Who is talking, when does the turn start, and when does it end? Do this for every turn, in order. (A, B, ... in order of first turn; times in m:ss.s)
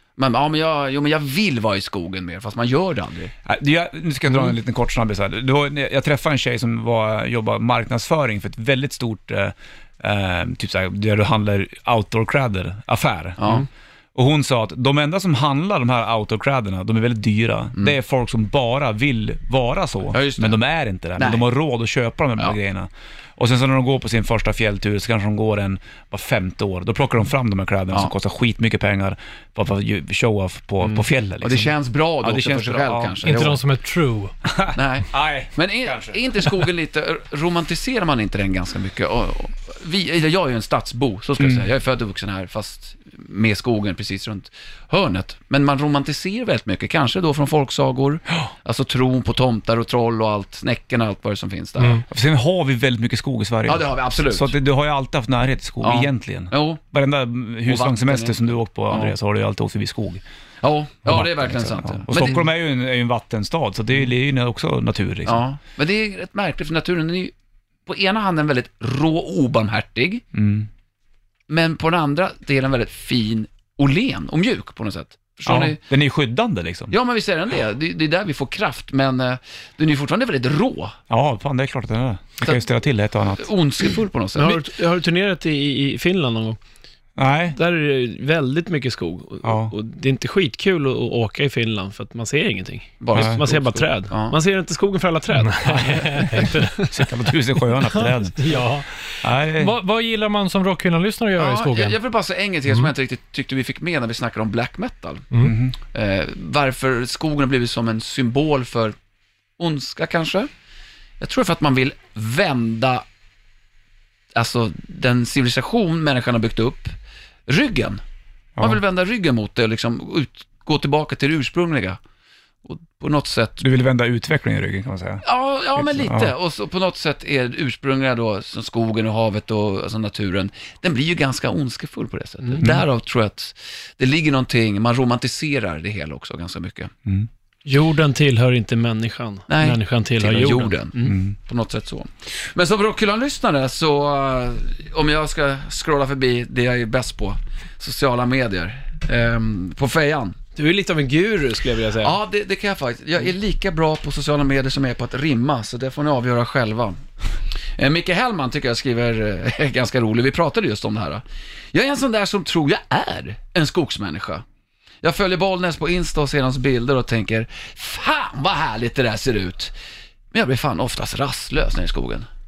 0:00.2-0:03.3 A
0:03.4-0:33.6 B
0:13.4-0:13.7 A
0:20.1-0:20.6 A
0:21.2-0:21.4 A
0:31.4-0:33.6 A
0:33.2-0:34.3 C
0:34.4-0:36.5 B
0:34.7-0:52.0 A
0:41.4-0:41.7 B
0:52.1-1:00.2 B
0:53.6-0:54.5 A
0:55.8-0:56.8 A
0:57.6-0:59.1 A
1:00.6-1:02.5 A
1:01.0-1:05.4 B
1:05.2-1:07.3 A
1:07.8-1:10.2 A
1:10.3-1:10.7 B
1:11.5-1:15.8 A
1:15.4-1:16.9 B
1:16.9-1:21.0 A
1:21.1-1:23.5 B
1:23.4-1:24.6 A
1:24.4-1:26.6 D
1:27.2-1:27.6 B
1:27.5-1:36.5 D
1:29.4-1:29.7 B
1:33.0-1:34.4 A
1:33.1-1:33.4 B
1:35.3-1:36.9 C
1:36.8-1:38.6 B
1:38.4-1:42.0 C
1:39.2-1:39.8 B
1:41.4-1:45.2 A
1:45.4-1:45.8 B
1:45.8-1:49.0 A
1:49.6-1:50.5 A
1:51.2-1:53.0 A
1:54.3-1:56.9 A
1:57.5-1:58.0 A
1:58.6-2:02.0 A
2:02.6-2:03.6 A
2:03.6-2:05.2 B
2:05.2-2:16.9 A
2:05.8-2:06.3 B
2:12.6-2:12.8 B
2:17.6-2:21.2 D
2:19.5-2:30.4 A
2:21.0-2:21.3 B
2:30.5-2:32.2 D
2:32.0-2:37.0 A
2:37.8-2:44.4 A
2:45.0-2:49.7 A
2:50.3-2:52.3 A